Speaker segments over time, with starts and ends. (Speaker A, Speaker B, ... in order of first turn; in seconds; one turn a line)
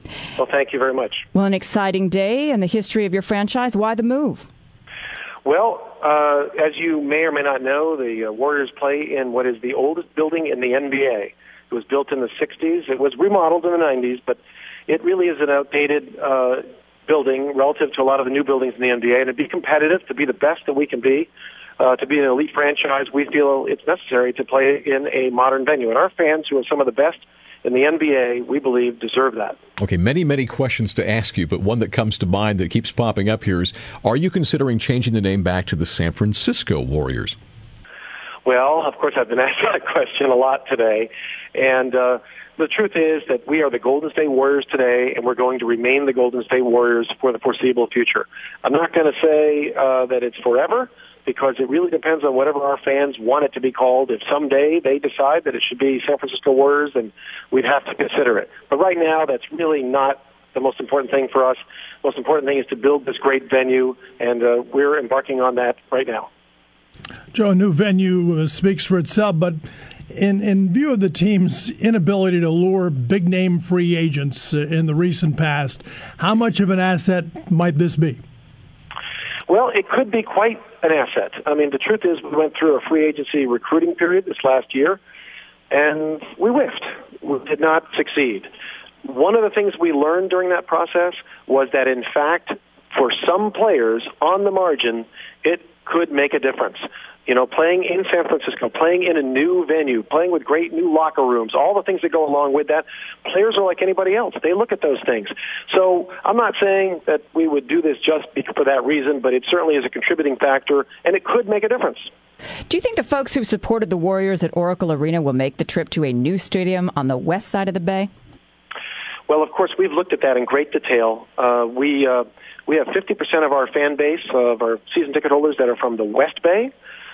Speaker A: 0.4-1.2
Speaker B: 1.3-4.5
Speaker A: 5.4-29.6
Speaker C: 29.8-37.4
Speaker A: 38.4-66.3
Speaker D: 67.3-78.2
Speaker A: 79.5-85.0
Speaker A: 85.7-88.5
Speaker A: 89.0-112.1
Speaker B: 112.7-118.1
Speaker A: 119.3-126.7